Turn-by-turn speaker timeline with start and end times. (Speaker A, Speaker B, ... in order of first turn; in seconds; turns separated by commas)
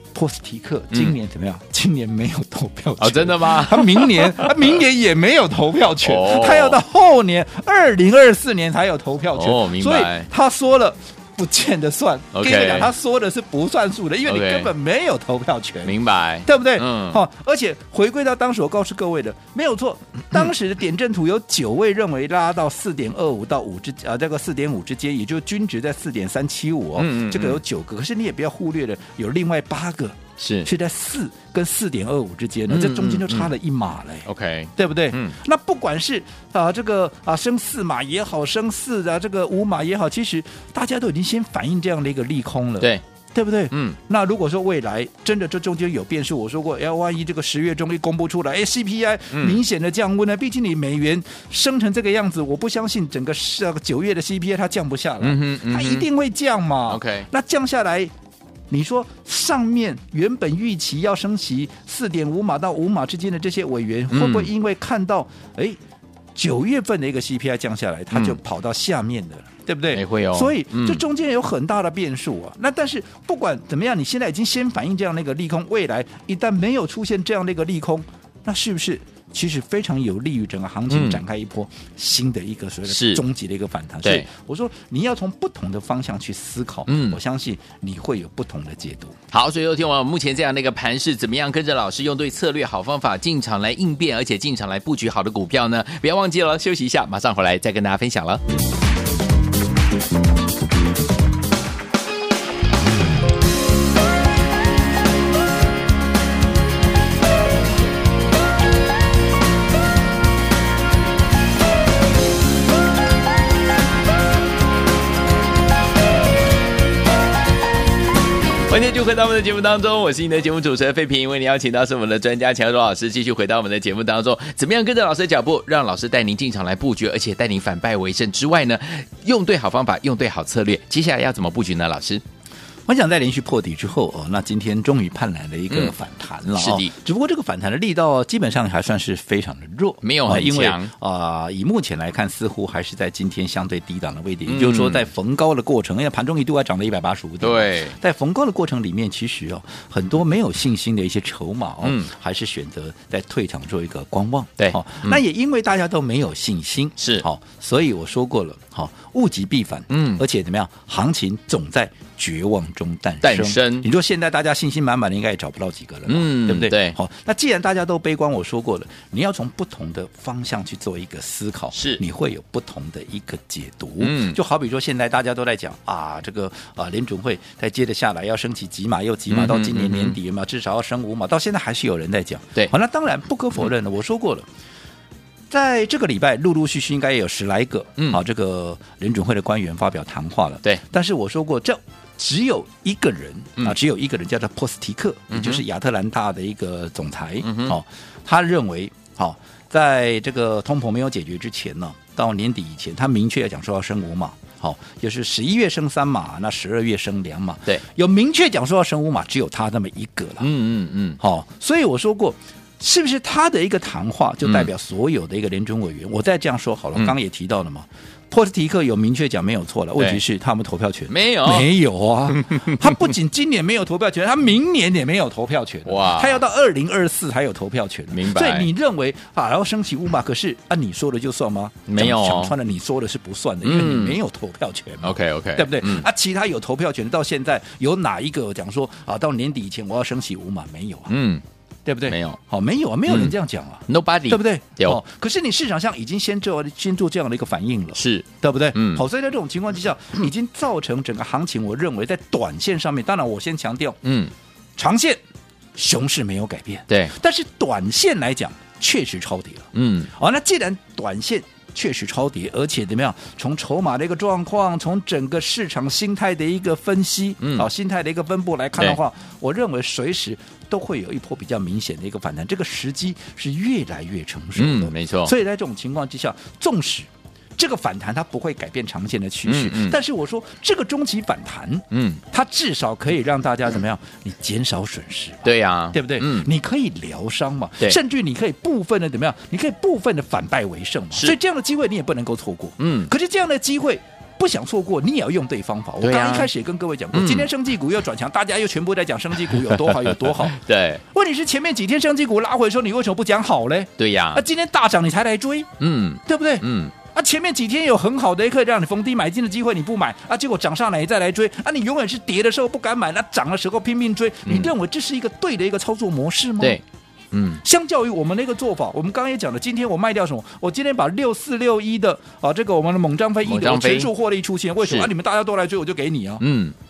Speaker A: 0.1-58.1, Speaker B: 3.0-4.8, Speaker B: 6.0-6.8, Speaker B: 9.3-10.3, Speaker B: 12.3-12.9, Speaker B: 14.3-14.7, Speaker B: 15.8-17.2, Speaker B: 27.0-27.6, Speaker B: 30.4-30.7, Speaker B: 32.7-33.5, Speaker B: 34.3-35.4, Speaker B: 43.7-44.0, Speaker B: 49.3-49.6, Speaker B: 55.2-56.1, Speaker B: 56.9-57.3, Speaker A: 58.7-65.8, Speaker B: 64.1-64.5, Speaker A: 66.3-89.2, Speaker B: 68.1-68.4, Speaker B: 69.9-71.0, Speaker B: 80.9-81.2, Speaker B: 82.9-83.2, Speaker B: 84.0-84.3, Speaker B: 86.9-87.2, Speaker B: 89.3-98.4, Speaker B: 118.7-132.2, Speaker A: 132.9-184.5, Speaker B: 136.5-136.9, Speaker B: 140.0-140.9, Speaker B: 144.5-145.1, Speaker B: 147.4-148.0, Speaker B: 151.8-152.1, Speaker B: 154.6-155.2, Speaker B: 157.0-157.2, Speaker B: 159.9-160.2, Speaker B: 163.2-163.9, Speaker B: 166.1-167.0, Speaker B: 171.7-172.0, Speaker B: 174.0-174.4, Speaker B: 179.3-180.2, Speaker A: 185.5-210.5, Speaker B: 195.3-195.6, Speaker B: 197.4-197.8, Speaker B: 210.4-211.2, Speaker A: 211.2-241.1, Speaker B: 214.4-214.7, Speaker B: 221.1-221.7, Speaker B: 222.3-223.1, Speaker B: 225.9-226.4, Speaker B: 228.1-228.7, Speaker B: 231.9-232.6, Speaker B: 233.6-234.2, Speaker B: 235.0-236.1, Speaker B: 241.1-241.4, Speaker A: 241.9-254.0, Speaker B: 242.1-242.4, Speaker B: 243.1-243.4, Speaker B: 243.9-245.0, Speaker B: 247.9-249.1, Speaker B: 254.0-254.3, Speaker A: 254.8-255.2, Speaker A: 255.8-300.6, Speaker B: 259.7-260.1, Speaker B: 267.4-267.7, Speaker B: 274.6-275.3, Speaker B: 279.5-280.0, Speaker B: 281.9-282.2, Speaker B: 285.4-286.5, Speaker B: 292.8-293.1, Speaker B: 296.0-296.5, Speaker B: 297.1-297.5, Speaker B: 299.5-301.0, Speaker A: 301.1-305.7, Speaker B: 304.0-304.4, Speaker B: 305.8-306.9, Speaker A: 306.2-316.8, Speaker B: 314.4-314.7, Speaker B: 316.6-317.6, Speaker A: 317.6-326.4, Speaker B: 323.4-324.1, Speaker B: 326.4-326.8